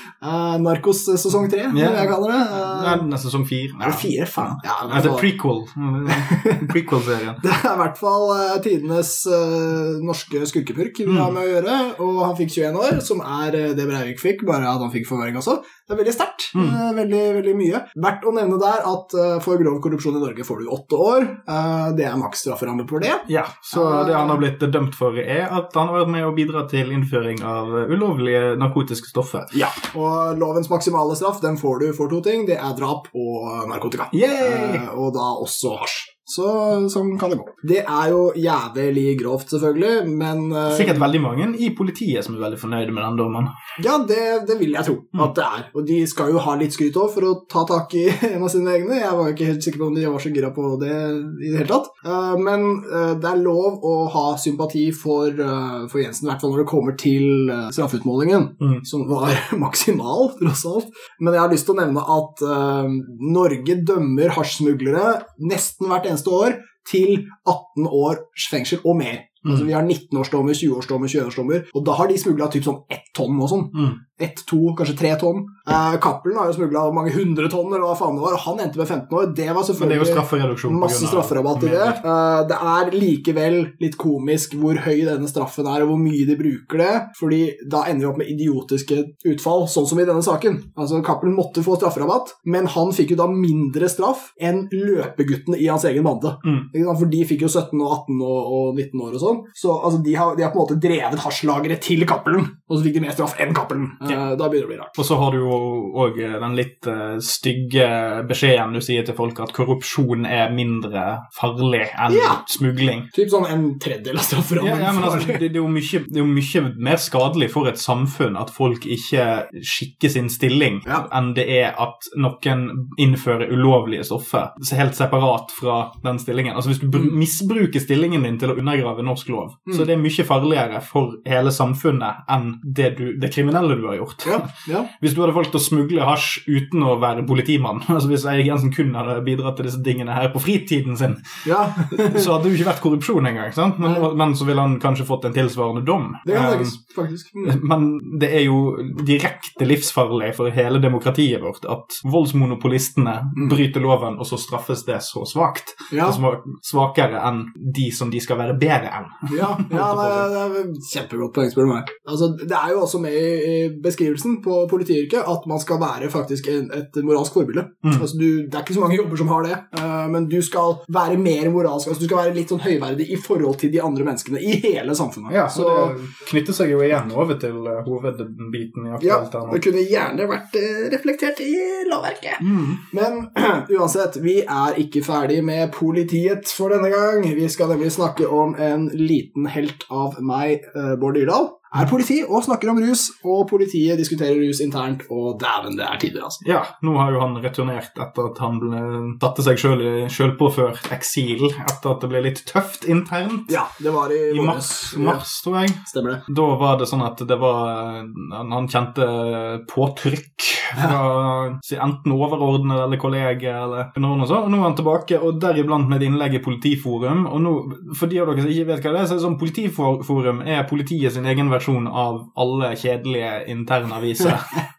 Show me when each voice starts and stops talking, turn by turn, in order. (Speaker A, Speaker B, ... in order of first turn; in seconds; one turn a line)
Speaker A: 0.2-3.0
Speaker B: 1.7-7.4
Speaker A: 3.8-5.3
Speaker A: 6.1-6.7
Speaker A: 7.4-24.4
Speaker B: 11.1-11.3
Speaker B: 23.2-29.5
Speaker A: 29.5-41.1
Speaker B: 34.1-34.8
Speaker B: 40.7-43.5
Speaker A: 43.8-105.0
Speaker B: 79.8-82.0
Speaker B: 105.0-113.1
Speaker A: 112.1-112.4
Speaker A: 113.1-115.4
Speaker B: 114.6-141.2
Speaker A: 134.2-134.9
Speaker A: 141.4-142.3
Speaker B: 141.8-146.7
Speaker A: 146.2-147.5
Speaker B: 147.4-160.3
Speaker A: 155.9-156.2
Speaker A: 159.3-175.9
Speaker B: 175.3-179.6
Speaker A: 179.0-196.4
Speaker B: 182.4-182.8
Speaker B: 196.4-203.6
Speaker A: 203.5-205.2
Speaker B: 204.3-224.6
Speaker A: 205.9-206.2